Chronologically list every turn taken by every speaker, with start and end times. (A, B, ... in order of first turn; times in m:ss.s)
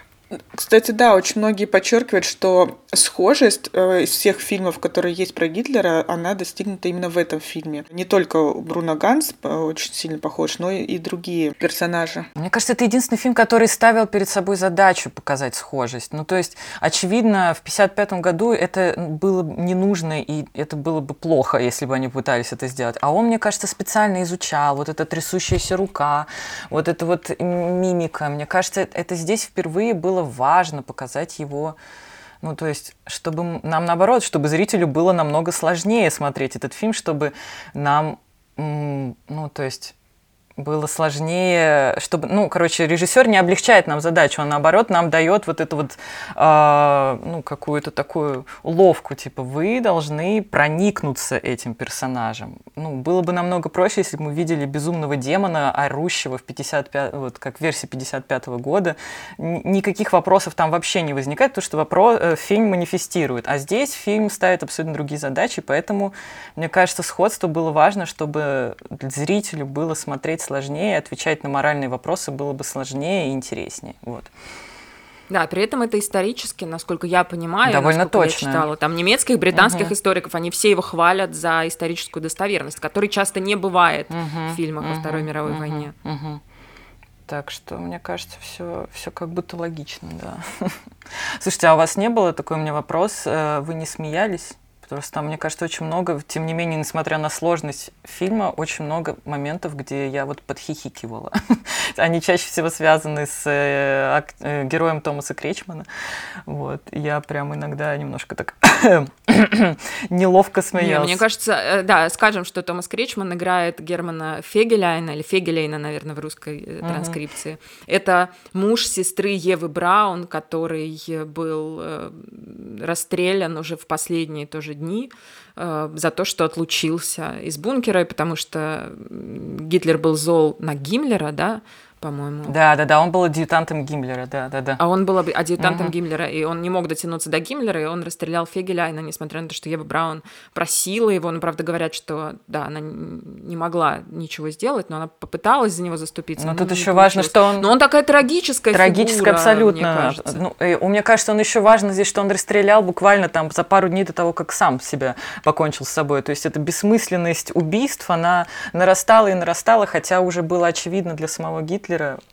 0:00.4-0:12.3 A
0:12.4-0:31.8 B
0:32.4-0:40.0 B
0:40.6-1:14.3 B
1:15.3-1:25.9 C
1:17.6-1:18.6 B
1:19.5-1:20.0 B
1:24.1-1:26.4 B
1:27.3-1:45.9 B
1:46.5-1:51.2 B
1:50.8-2:12.5 C
1:56.8-1:57.2 B
2:12.5-2:14.8 B
2:14.8-2:30.4 C
2:15.6-2:15.9 B
2:26.4-2:27.7 B
2:28.7-2:42.2 B